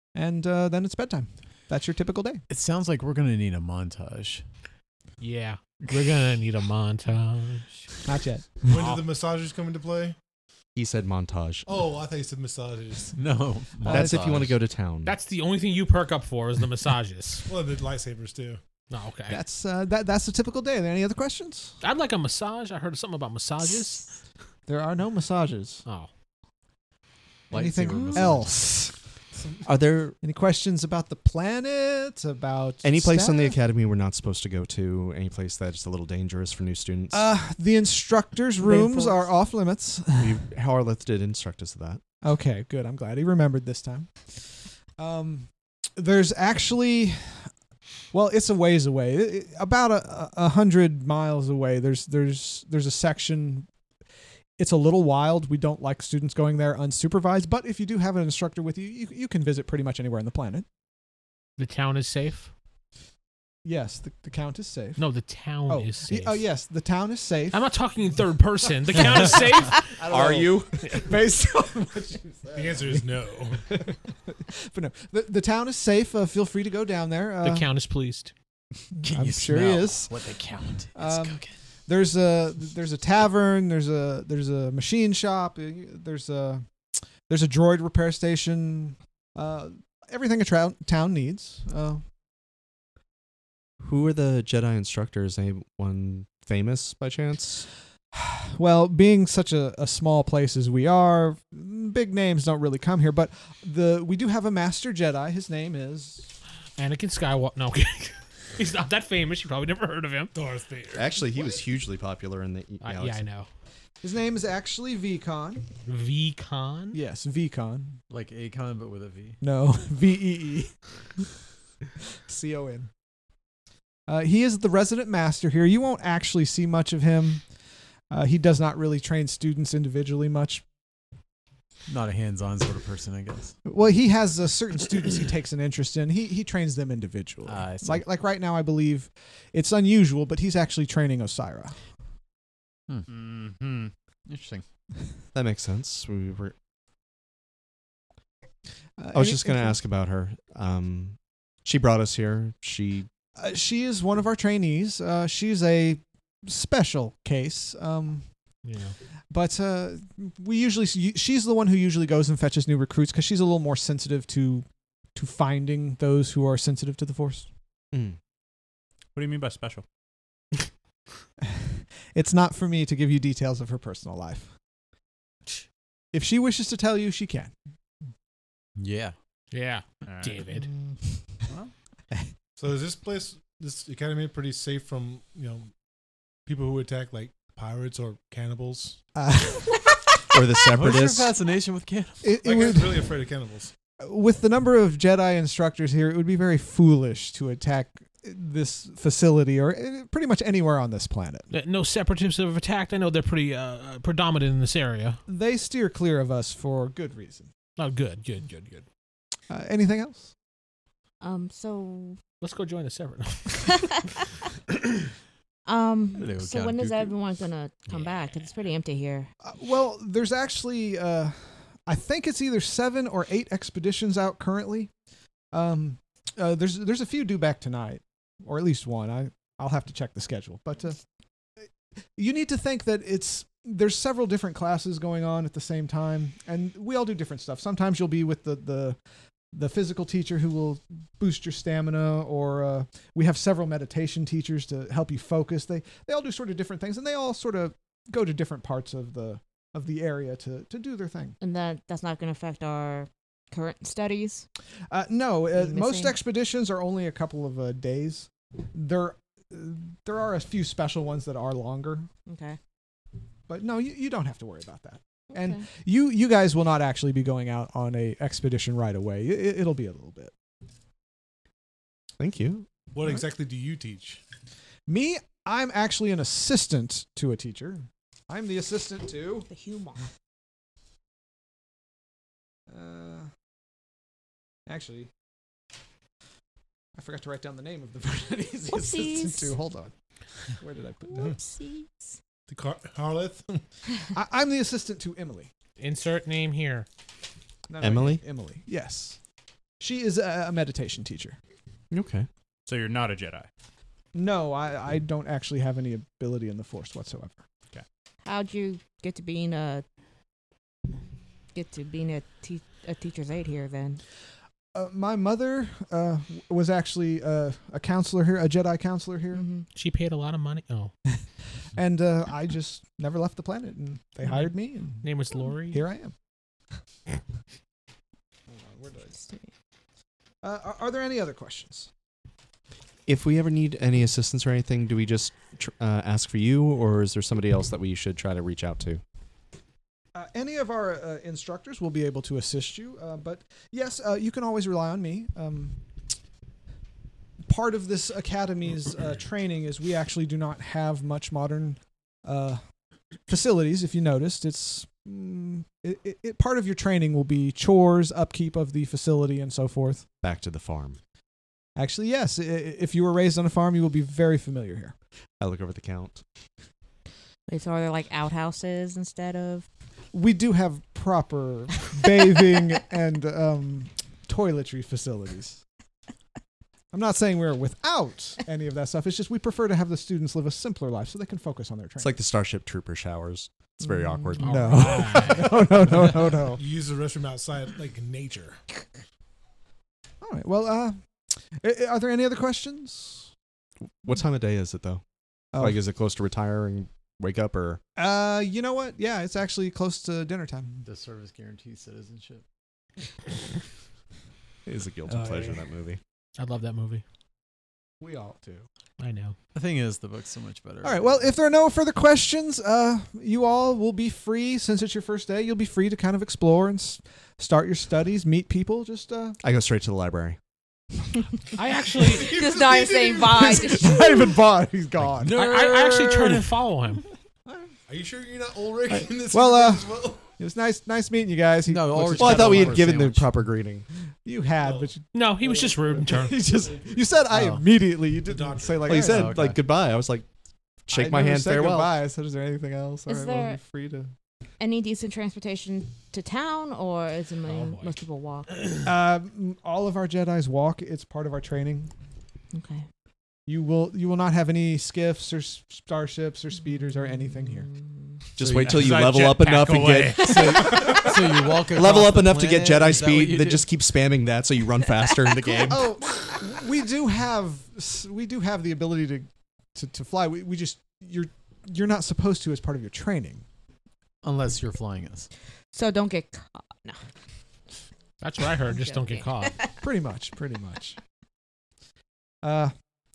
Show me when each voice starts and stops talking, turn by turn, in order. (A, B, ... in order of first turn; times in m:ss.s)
0:00.2-0:02.4 A
0:02.5-0:04.4 B
0:05.2-0:07.7 C
0:08.0-0:08.5 A
0:08.6-0:10.2 D
0:08.7-0:09.0 C
0:10.8-0:11.7 E
0:11.7-0:13.2 D
0:13.2-0:14.6 B
0:13.8-0:15.1 E
0:13.9-0:14.3 A
0:15.0-0:17.5 C
0:17.5-0:18.6 D
0:18.9-0:19.4 C
0:19.3-0:21.8 A
0:21.8-0:24.1 C
0:24.7-0:25.8 A
0:27.5-0:28.6 B
0:27.5-0:29.0 A
0:27.9-0:28.3 F
0:29.6-0:30.2 E
0:30.2-0:33.6 A
0:32.8-0:37.3 E
0:37.1-0:40.4 A
0:38.9-0:39.2 F
0:40.2-0:42.0 E
0:42.2-0:47.5 A
0:48.1-0:53.7 A
0:54.6-1:00.7 A
1:01.6-1:02.5 C
1:03.6-1:05.0 A
1:05.0-1:06.4 C
1:05.7-1:07.6 A
1:07.5-1:09.9 C
1:09.8-1:13.0 A
1:10.0-1:11.0 E
1:12.5-1:13.7 D
1:13.7-1:17.7 A
1:17.4-1:18.3 C
1:19.0-1:20.1 A
1:19.0-1:21.5 B
1:21.0-1:26.6 A
1:27.3-1:32.0 A
1:33.8-1:37.7 E
1:38.1-1:46.3 A
1:46.8-1:50.3 C
1:50.3-1:51.2 D
1:51.0-1:53.3 E
1:52.8-1:53.5 C
1:54.0-1:55.6 A
1:55.9-1:57.0 C
1:56.9-1:58.0 A
1:58.1-1:59.4 B
1:59.4-2:00.7 A
2:02.3-2:02.9 A
2:04.1-2:07.4 A
2:08.1-2:10.6 A
2:11.9-2:13.6 B
2:13.6-2:21.8 A
2:17.5-2:18.0 B
2:22.9-2:23.4 B
2:23.1-2:23.9 G
2:24.3-2:24.6 B
2:25.3-2:26.6 E
2:29.0-2:29.8 A
2:29.1-2:33.1 E
2:33.4-2:38.3 A
2:38.6-2:39.0 C
2:39.3-2:47.5 A
2:47.9-2:48.2 E
2:49.2-2:49.8 G
2:51.4-2:54.5 A
2:56.1-2:57.5 A
2:58.8-2:59.2 B
2:59.5-3:00.7 C
3:00.0-3:00.5 G
3:02.6-3:05.7 D
3:06.5-3:09.0 D
3:09.2-3:10.0 A
3:10.3-3:11.3 E
3:10.8-3:12.3 B
3:12.2-3:13.1 A
3:12.4-3:13.7 D
3:14.0-3:21.5 A
3:21.5-3:25.2 C
3:25.3-3:27.5 A
3:27.8-3:28.8 C
3:29.5-3:30.3 A
3:31.2-3:32.2 F
3:32.4-3:33.8 C
3:33.6-3:34.0 F
3:35.7-3:39.3 F
3:36.2-3:37.1 B
3:39.4-3:44.9 A
3:45.5-3:51.0 A
3:51.6-3:59.0 A
3:59.5-4:11.4 A
4:11.4-4:14.5 F
4:14.9-4:22.1 A
4:15.5-4:16.1 F
4:22.3-4:22.6 F
4:23.5-4:30.3 A
4:25.3-4:25.7 F
4:32.2-4:32.7 E
4:32.9-4:34.2 D
4:34.9-4:39.5 A
4:39.5-4:40.1 F
4:42.7-4:43.3 A
4:44.7-4:45.1 A
4:47.0-4:49.9 A
4:48.7-4:49.6 F
4:50.6-4:51.4 A
4:51.1-4:52.2 F
4:52.5-4:53.6 D
4:54.1-4:55.5 A
4:55.8-4:56.9 C
4:57.7-4:59.2 A
4:57.8-4:58.2 E
4:59.8-5:01.4 A
5:01.9-5:02.3 E
5:02.7-5:03.5 G
5:04.1-5:07.4 A
5:08.2-5:09.8 F
5:11.5-5:14.0 F
5:14.7-5:19.4 A
5:19.3-5:19.7 F
5:19.7-5:20.9 C
5:21.8-5:25.1 A
5:25.0-5:25.8 C
5:25.7-5:26.1 A
5:28.5-5:29.2 A
5:30.4-5:31.9 A
5:33.1-5:39.0 E
5:40.1-5:45.8 A
5:47.5-5:52.6 A
5:53.3-6:00.1 A
6:00.2-6:01.0 E
6:01.8-6:05.0 A
6:05.4-6:06.2 E
6:07.5-6:09.7 F
6:10.1-6:15.6 A
6:16.9-6:22.1 A
6:22.0-6:25.1 E
6:24.4-6:25.6 C
6:24.4-6:26.6 A
6:26.0-6:28.6 D
6:30.2-6:31.0 A
6:31.6-6:33.3 A
6:34.0-6:35.0 E
6:35.6-6:37.8 E
6:38.0-6:40.8 A
6:40.8-6:42.4 B
6:44.7-6:46.0 E
6:45.1-6:45.6 C
6:46.4-6:47.0 C
6:48.0-6:48.7 A
6:49.0-6:49.4 C
6:49.6-6:51.3 B
6:50.8-6:59.4 A
6:59.4-7:00.4 E
7:01.6-7:02.4 C
7:02.0-7:03.6 D
7:02.2-7:04.4 F
7:02.7-7:05.4 A
7:05.1-7:06.6 B
7:05.3-7:07.0 C
7:07.5-7:07.7 A
7:07.9-7:10.3 D
7:09.3-7:12.8 A
7:11.7-7:13.3 B
7:12.2-7:13.9 E
7:14.2-7:19.4 A
7:14.6-7:14.9 D
7:15.1-7:16.4 C
7:16.5-7:17.2 D
7:17.3-7:17.7 B
7:18.2-7:19.0 D
7:18.9-7:20.3 E
7:19.0-7:19.6 B
7:20.9-7:22.0 E
7:20.9-7:24.1 A
7:23.1-7:23.6 F
7:24.6-7:28.6 F
7:27.5-7:28.0 C
7:28.8-7:31.9 A
7:32.5-7:32.8 F
7:33.5-7:37.7 A
7:37.5-7:37.8 F
7:38.4-7:45.9 E
7:38.4-7:39.2 B
7:38.6-7:41.0 G
7:40.2-7:43.7 B
7:45.3-7:46.2 F
7:45.7-7:53.4 A
7:54.2-7:55.3 B
7:55.7-7:57.0 F
7:58.2-7:59.6 C
7:58.6-7:59.7 F
7:59.8-8:01.0 A
8:02.4-8:02.7 A